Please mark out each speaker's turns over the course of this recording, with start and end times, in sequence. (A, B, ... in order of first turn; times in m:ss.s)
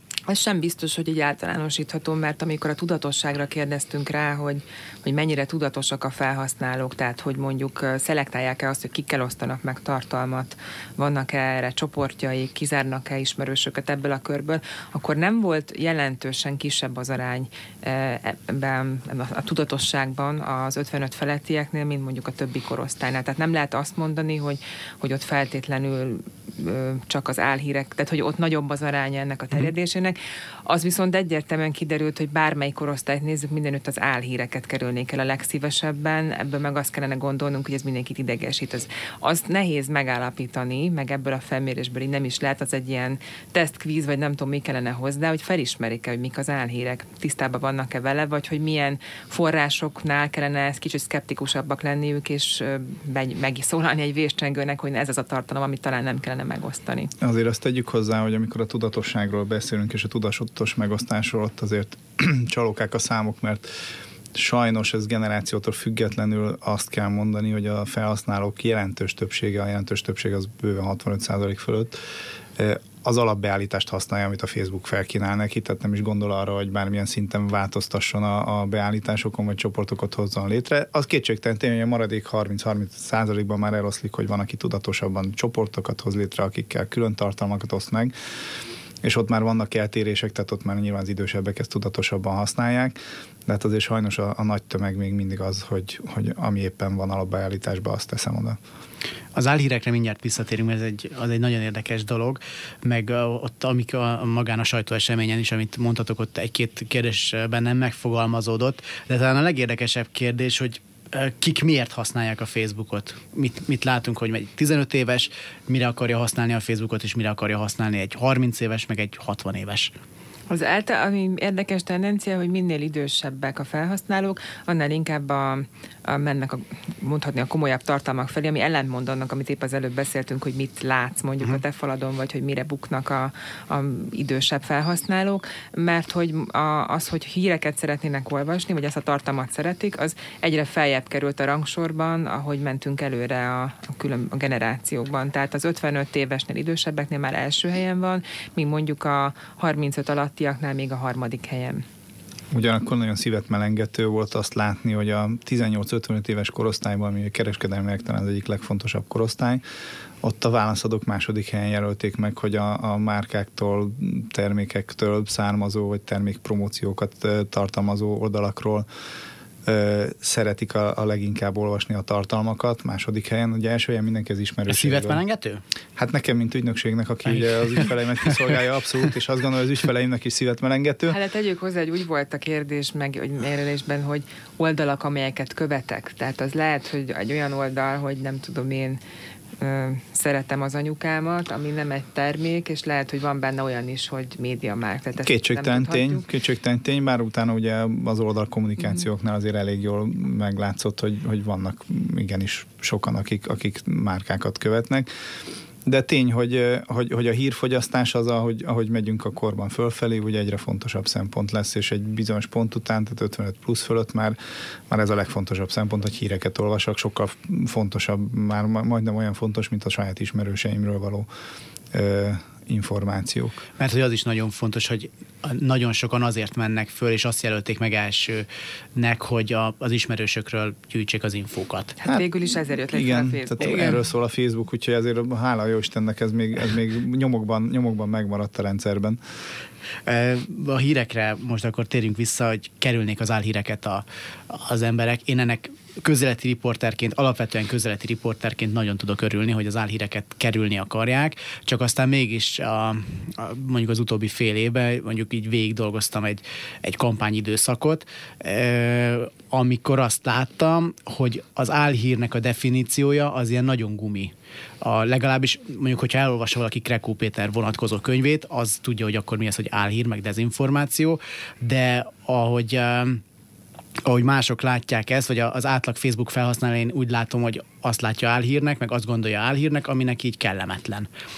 0:00.3-0:30.2 A
0:30.7-0:57.1 A
0:57.2-1:03.7 B
1:04.3-1:12.0 B
1:12.6-1:28.1 B
1:29.0-1:32.9 B
1:33.4-1:38.6 B
1:39.3-1:59.9 C
2:00.5-2:31.8 A
2:32.5-2:39.6 B
2:40.2-2:48.8 B
2:49.6-2:55.2 B
2:54.7-2:55.6 C
2:56.0-3:01.2 B
3:01.1-3:09.0 A
3:09.6-3:16.2 A
3:15.2-3:25.1 B
3:25.8-3:34.4 B
3:34.9-3:41.3 B
3:41.9-3:43.6 B
3:43.8-3:52.0 C
3:52.0-3:54.0 A
3:52.9-3:59.2 B
4:00.0-4:33.2 C
4:34.0-4:41.1 C